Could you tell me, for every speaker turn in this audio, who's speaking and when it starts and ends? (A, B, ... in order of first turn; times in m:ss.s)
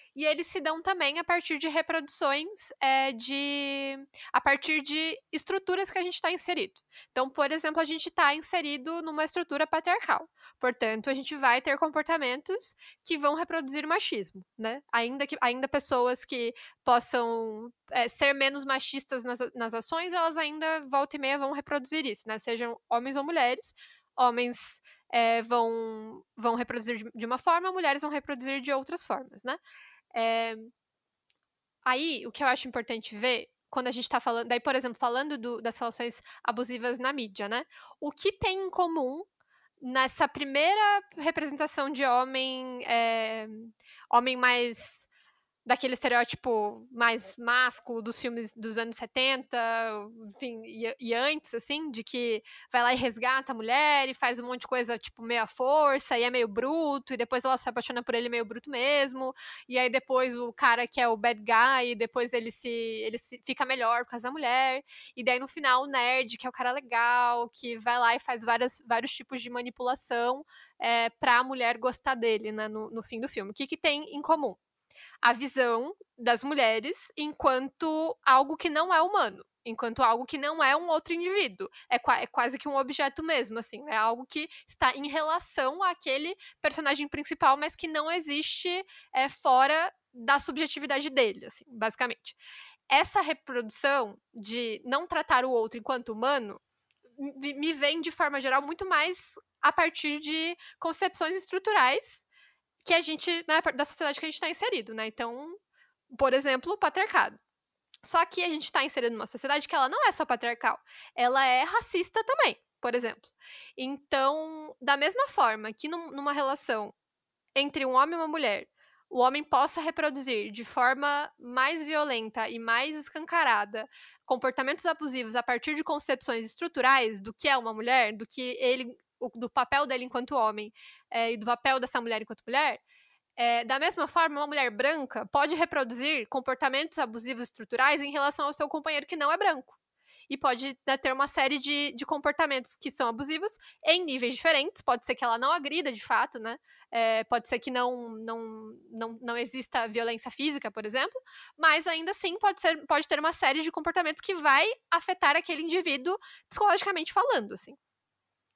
0:00.2-0:29.6 A
0:30.1-0:30.7 A
0:31.8-0:39.3 A
0:39.8-0:45.1 A
0:45.7-1:14.6 A
1:15.2-1:32.4 A
1:32.9-1:36.6 A
1:37.2-1:42.2 A
1:42.8-1:45.6 A
1:46.1-1:47.4 A
1:48.0-1:56.9 A
1:57.6-2:12.8 A
2:13.4-2:19.8 A
2:20.3-2:37.8 A